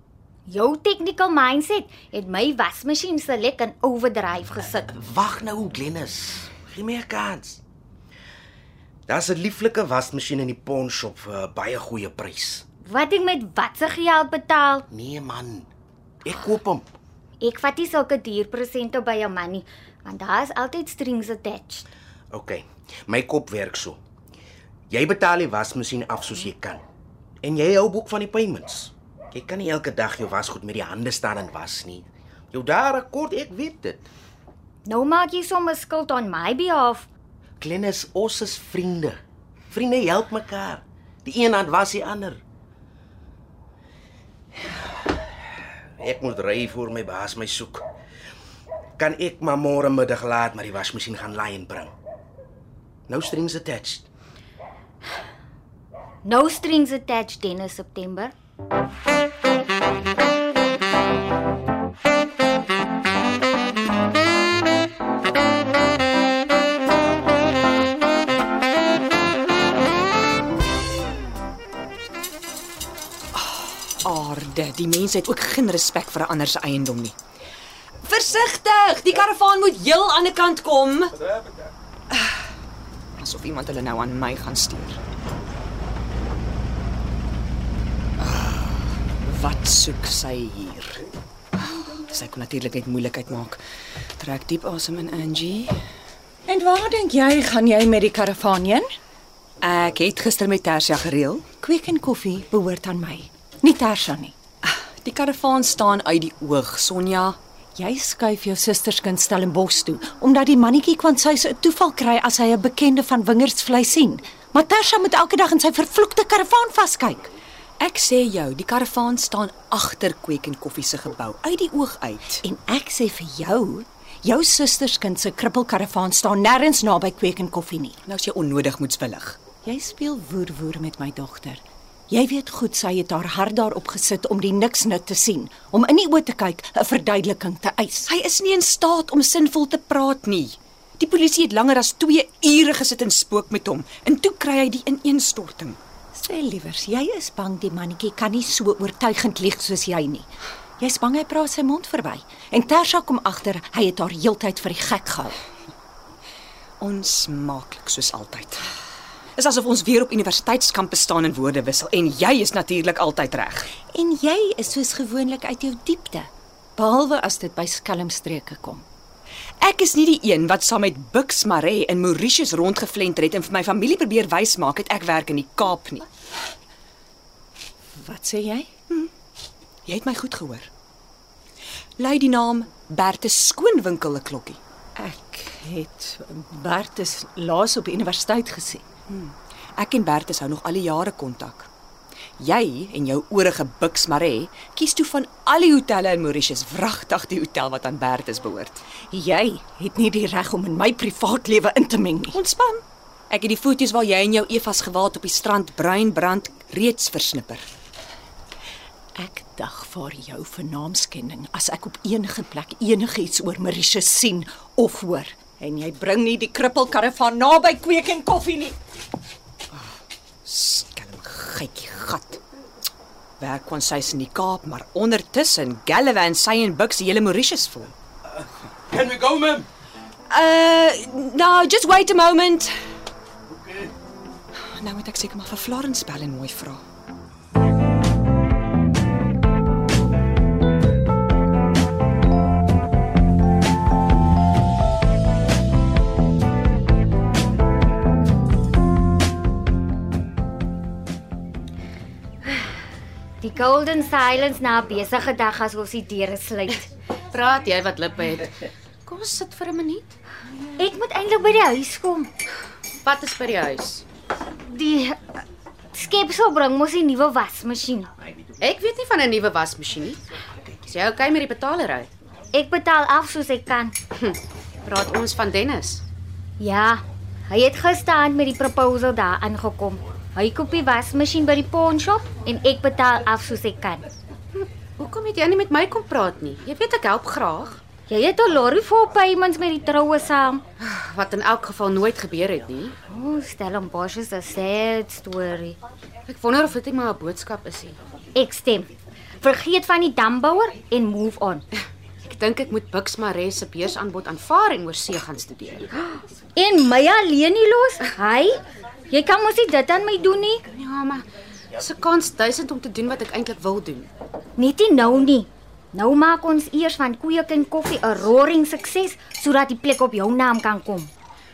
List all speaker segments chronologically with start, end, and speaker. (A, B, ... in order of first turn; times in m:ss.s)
0:00.5-0:04.8 A
0:04.9-0:07.6 B
0:09.1-0:12.6 B
0:12.8-0:14.9 A
0:14.9-0:15.7 B
0:16.2-0:16.9 B
0:17.4-0:21.8 A
0:22.3-0:24.0 B
0:24.9-0:26.8 B
0:27.4-0:34.1 B
0:34.8-0:37.1 A
0:37.6-0:39.2 B
0:39.7-0:42.4 B
0:46.0-0:47.8 B
0:49.0-0:51.9 B
0:53.1-0:54.1 B
0:56.2-0:58.3 A
1:13.3-1:17.2 C
1:18.0-1:21.2 C
1:23.2-1:25.0 C
1:28.2-1:31.0 C
1:31.6-1:33.6 C
1:34.2-1:35.8 C
1:36.5-1:38.9 D
1:39.6-1:41.5 C
1:41.6-1:44.3 D
1:44.6-1:47.4 C
1:47.8-1:57.2 D
1:57.8-2:02.4 C
2:02.4-2:08.0 D
2:08.1-2:09.4 C
2:09.6-2:18.1 D
2:18.1-2:25.8 C
2:26.2-2:30.3 D
2:30.8-2:35.4 D
2:36.8-2:38.6 C
2:39.4-2:43.8 C
2:43.9-2:48.8 D
2:49.6-2:56.1 C
2:58.0-2:58.7 D
2:59.9-3:00.7 C
3:02.0-3:04.6 C
3:05.0-3:08.8 D
3:09.1-3:11.7 C
3:12.4-3:18.8 C
3:19.1-3:22.3 D
3:22.3-3:27.6 C
3:29.2-3:38.8 D
3:40.5-3:42.4 C
3:43.4-3:47.9 C
3:48.9-3:49.7 B
3:50.3-3:52.7 C
3:54.8-3:56.8 C
4:13.4-4:16.9 A
4:17.3-4:20.2 E
4:20.8-4:22.3 A
4:23.0-4:24.0 E
4:24.6-4:28.1 A
4:28.6-4:30.2 E
4:30.9-4:32.1 E
4:32.5-4:34.0 A
4:34.2-4:36.0 E
4:36.6-4:44.1 A
4:44.6-4:47.8 E
4:48.1-4:50.6 A
4:50.8-4:53.0 E
4:53.1-4:55.8 A
4:56.3-4:58.0 E
4:58.4-4:58.9 A
4:59.4-5:01.6 A
5:02.2-5:06.2 E
5:06.6-5:08.6 A
5:09.1-5:10.6 A
5:10.7-5:14.1 E
5:14.6-5:21.1 A